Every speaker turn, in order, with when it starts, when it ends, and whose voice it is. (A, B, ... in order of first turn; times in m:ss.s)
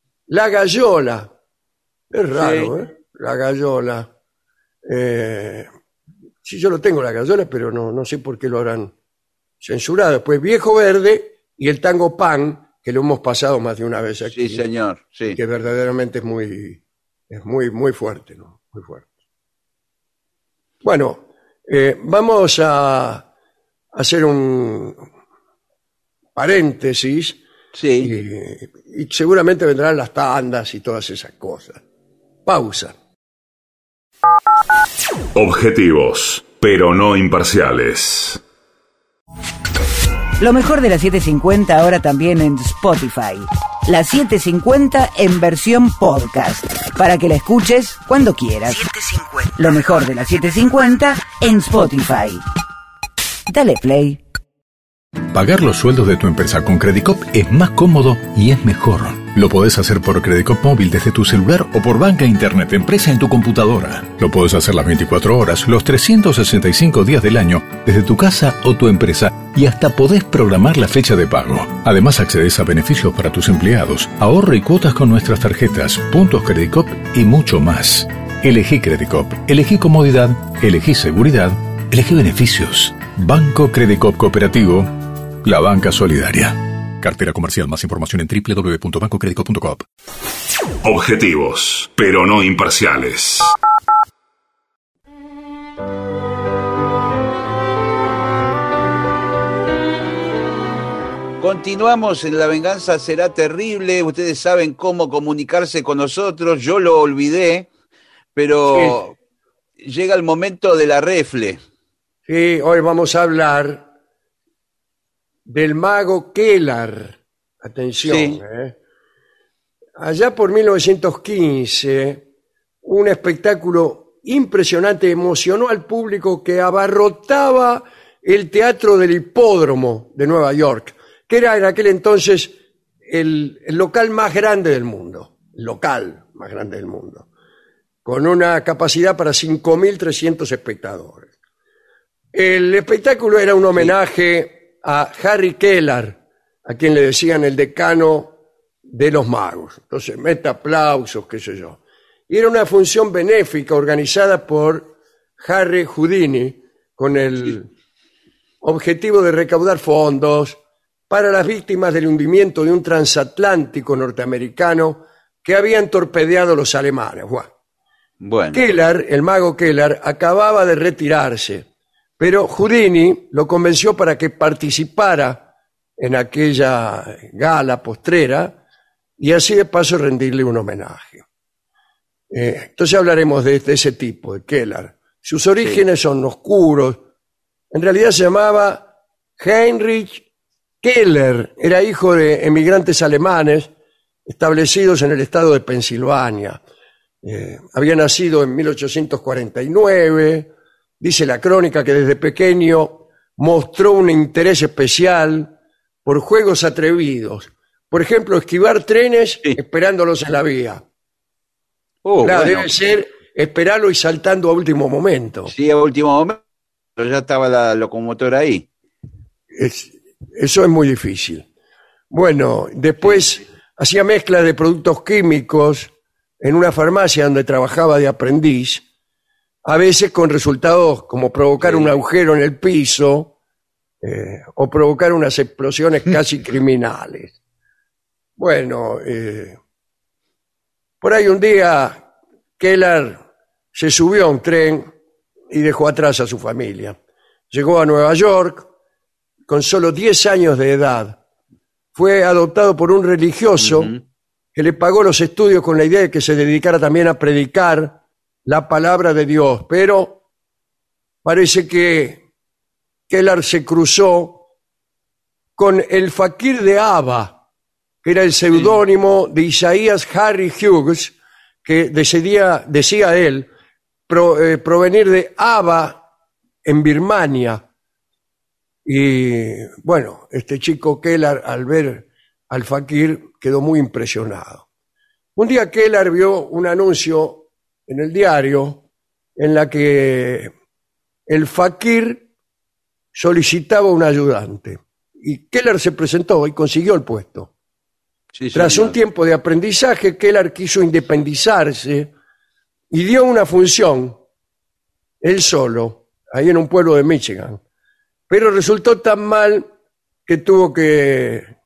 0:00.3-0:01.3 A
0:02.1-0:04.1 A
0:02.3-0:02.7 B
0:04.8-0:05.7 A
0:06.4-0:08.9 A
0:09.6-0:14.6 A
0:14.3-0:15.4 B
0:15.3-0:19.1 A
0:20.8-0:23.3 A
0:23.9-0:25.0 A
0:26.4-0:27.4 A
0:27.7-0:28.1 B
0:28.0-0:31.8 A
0:32.5-0:33.0 A
0:35.4-0:38.4 C
0:40.4-0:52.4 D
0:53.5-0:54.2 D
0:55.3-1:24.9 E
1:25.4-1:29.8 E
1:30.8-1:33.5 C
1:41.4-1:47.7 B
1:48.4-1:49.2 B
1:48.7-1:49.0 A
1:49.8-1:51.6 B
1:52.3-1:53.9 A
1:55.5-1:58.8 A
1:58.0-1:58.4 B
2:00.0-2:02.3 A
2:02.8-2:17.3 A
2:18.0-2:21.3 A
2:22.3-2:28.3 A
2:28.9-2:37.7 A
2:38.6-2:40.6 A
2:41.1-2:47.5 A
2:48.2-2:48.6 B
2:48.5-2:51.7 A
2:52.2-2:58.6 A
2:59.2-3:01.2 A
3:02.3-3:07.0 A
3:07.7-3:10.3 A
3:10.8-3:13.7 A
3:14.3-3:16.6 A
3:17.2-3:25.5 A
3:26.0-3:30.8 A
3:32.0-3:32.7 B
3:32.2-3:35.5 A
3:35.5-3:36.4 B
3:37.0-3:38.7 B
3:39.5-3:41.5 A
3:42.1-3:48.8 A
3:43.0-3:43.4 B
3:49.6-3:53.4 A
3:51.6-3:51.9 B
3:54.0-3:57.4 A
3:58.4-3:59.6 A
4:01.0-4:02.1 A
4:02.6-4:03.2 A
4:03.7-4:04.9 A
4:05.5-4:07.0 A
4:07.5-4:08.7 A
4:09.5-4:11.2 A
4:11.9-4:13.9 A
4:13.6-4:14.0 B
4:14.6-4:20.2 A
4:21.2-4:22.2 A
4:23.1-4:24.4 A
4:25.6-4:27.4 A
4:28.0-4:33.5 A
4:34.1-4:36.0 A
4:36.6-4:37.6 A
4:38.8-4:44.7 A
4:45.4-4:48.8 A
4:49.4-4:50.5 A
4:51.3-4:52.3 A
4:53.1-4:57.5 A
4:58.3-4:59.0 B
4:58.5-5:02.1 A
5:02.9-5:04.2 A
5:05.2-5:07.6 A
5:08.3-5:09.7 A
5:10.3-5:11.5 A